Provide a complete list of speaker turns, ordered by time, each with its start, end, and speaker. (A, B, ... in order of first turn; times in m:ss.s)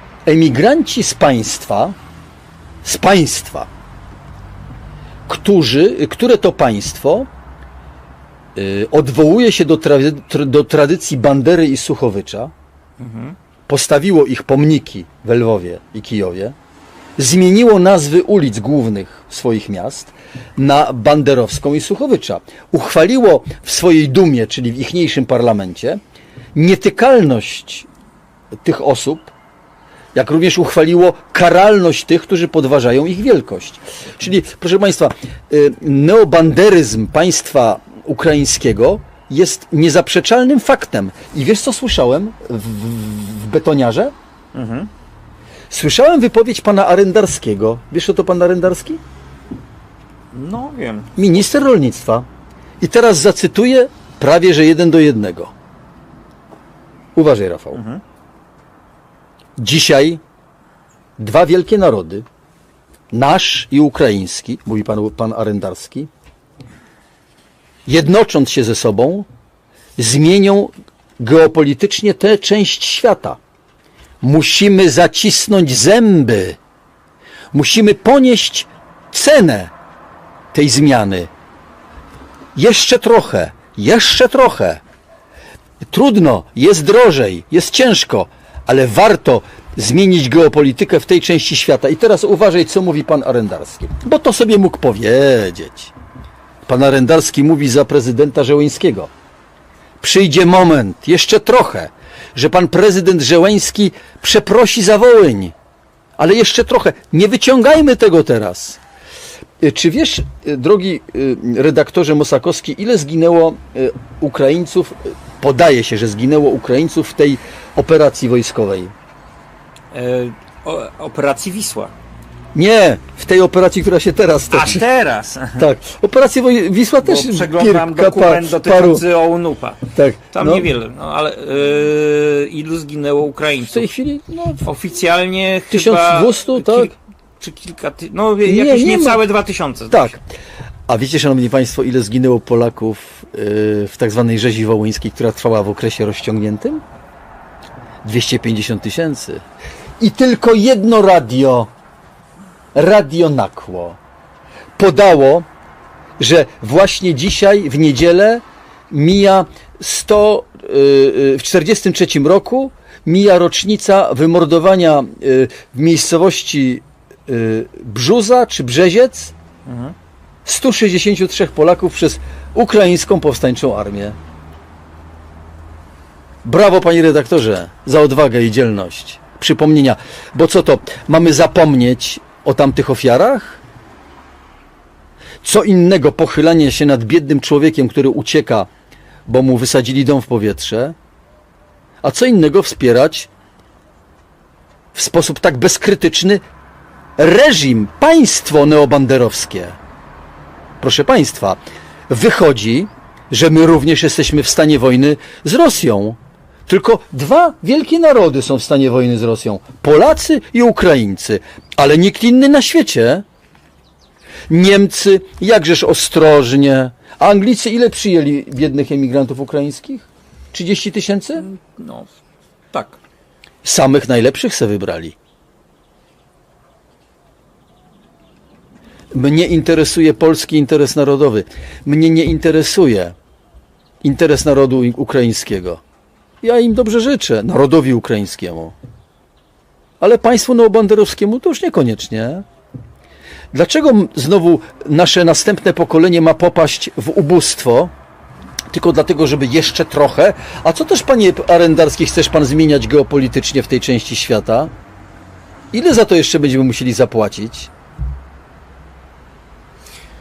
0:00.3-0:02.0 A
0:02.8-0:03.7 A
0:05.3-0:07.3 A
0:08.6-0:12.5 A
0:13.0-0:13.4 B
0:13.7-0:16.6 A
0:17.2-0:26.0 A
0:26.6-0:27.9 A
0:28.6-0:29.3 A
0:30.2-0:44.1 A
0:44.5-0:44.9 B
0:45.7-0:49.0 A
0:50.3-0:51.3 B
0:51.2-0:52.3 A
0:52.8-0:55.5 A
0:57.2-0:57.8 A
0:57.7-0:58.0 B
0:59.6-1:00.2 A
1:01.2-1:02.2 A
1:03.1-1:06.1 A
1:07.9-1:09.3 A
1:10.0-1:13.4 A
1:14.2-1:16.6 A
1:17.5-1:19.7 A
1:20.5-1:21.3 A
1:22.6-1:24.8 A
1:25.8-1:35.9 A
1:36.7-1:39.1 A
1:40.0-1:45.5 A
1:46.2-1:48.8 A
1:49.6-1:58.9 A
1:59.9-2:01.9 B
2:02.5-2:04.8 A
2:04.5-2:05.7 B
2:05.6-2:09.0 A
2:07.0-2:13.9 B
2:09.9-2:10.7 A
2:13.7-2:14.7 A
2:14.6-2:20.2 B
2:15.7-2:16.9 A
2:18.4-2:19.2 A
2:19.9-2:20.2 A
2:20.9-2:26.8 A
2:28.0-2:29.4 A
2:30.0-2:31.7 A
2:32.8-2:34.0 A
2:34.8-2:35.5 A
2:36.2-2:49.3 A
2:49.7-2:50.0 B
2:50.5-2:54.2 A
2:56.4-3:03.6 A
3:05.4-3:08.7 A
3:09.3-3:11.0 A
3:12.0-3:13.3 A
3:14.9-3:16.4 A
3:17.2-3:19.8 A
3:20.8-3:33.2 A
3:34.5-3:41.5 A
3:41.4-3:42.1 B
3:42.7-3:43.0 B
3:43.6-3:45.2 A
3:49.1-3:53.2 A
3:54.0-3:55.8 A
3:56.4-3:58.8 A
4:00.0-4:02.4 A
4:03.5-4:07.9 A
4:08.7-4:14.7 A
4:15.7-4:17.7 A